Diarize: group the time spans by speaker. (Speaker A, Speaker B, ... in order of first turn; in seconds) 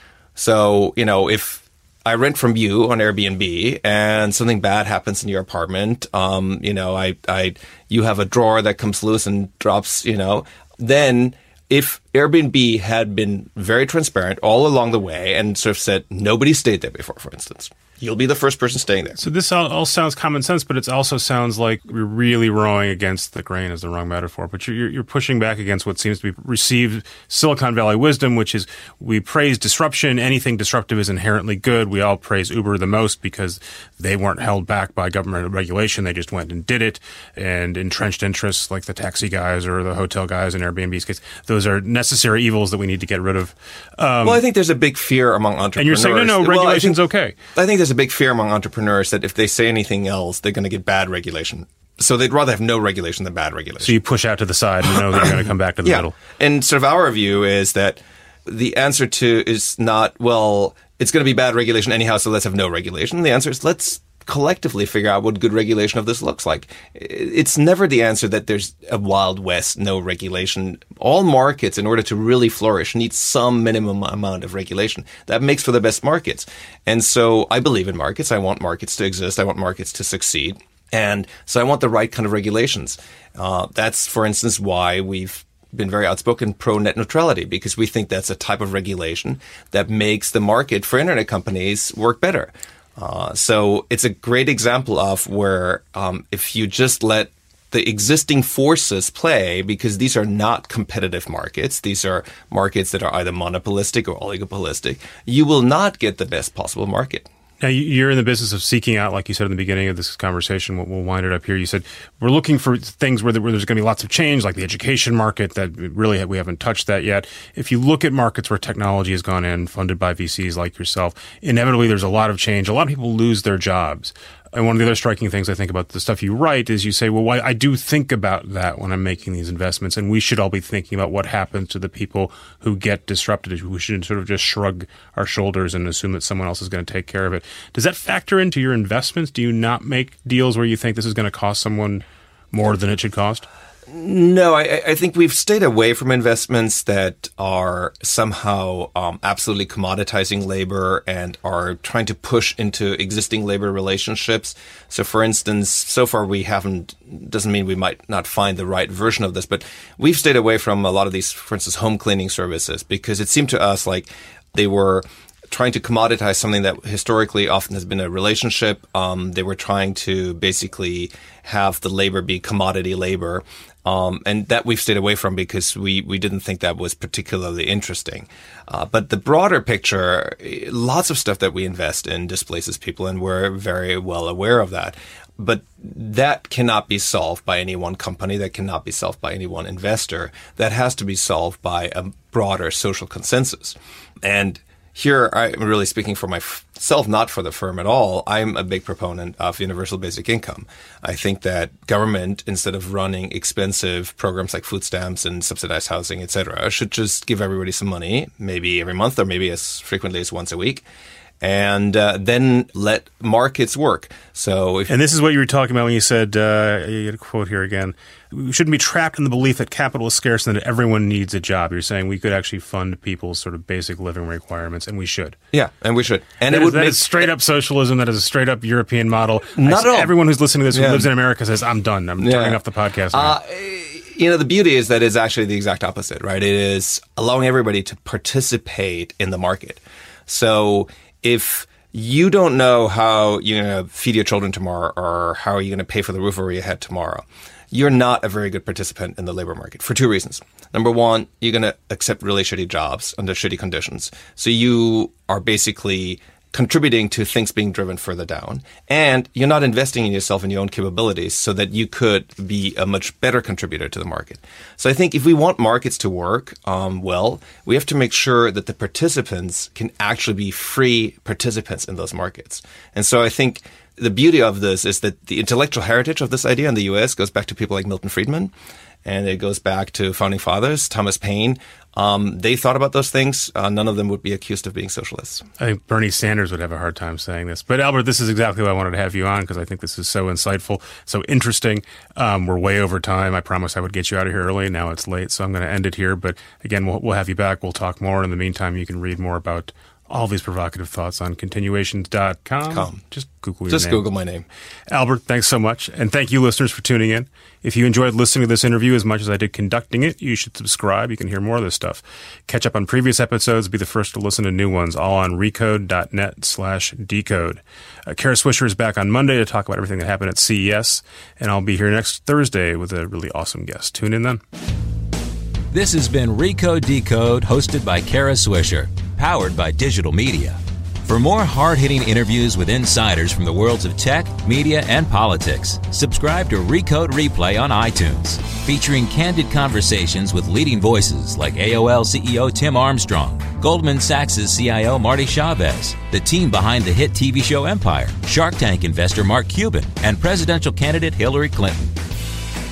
Speaker A: 0.3-19.2, 44.2-47.0, 47.5-53.9, 54.9-107.3, 143.9-210.8, 211.4-214.9, 225.5-227.3, 229.5-230.1, 230.7-231.1, 232.2-232.6, 233.1-278.5, 279.0-285.4, 302.7-303.0, 303.7-304.4
Speaker B: 19.2-44.4, 45.8-47.3, 53.8-56.2, 107.6-143.5, 214.9-225.4, 226.4-233.3, 285.6-304.0, 304.9-324.4
Speaker C: 325.7-352.0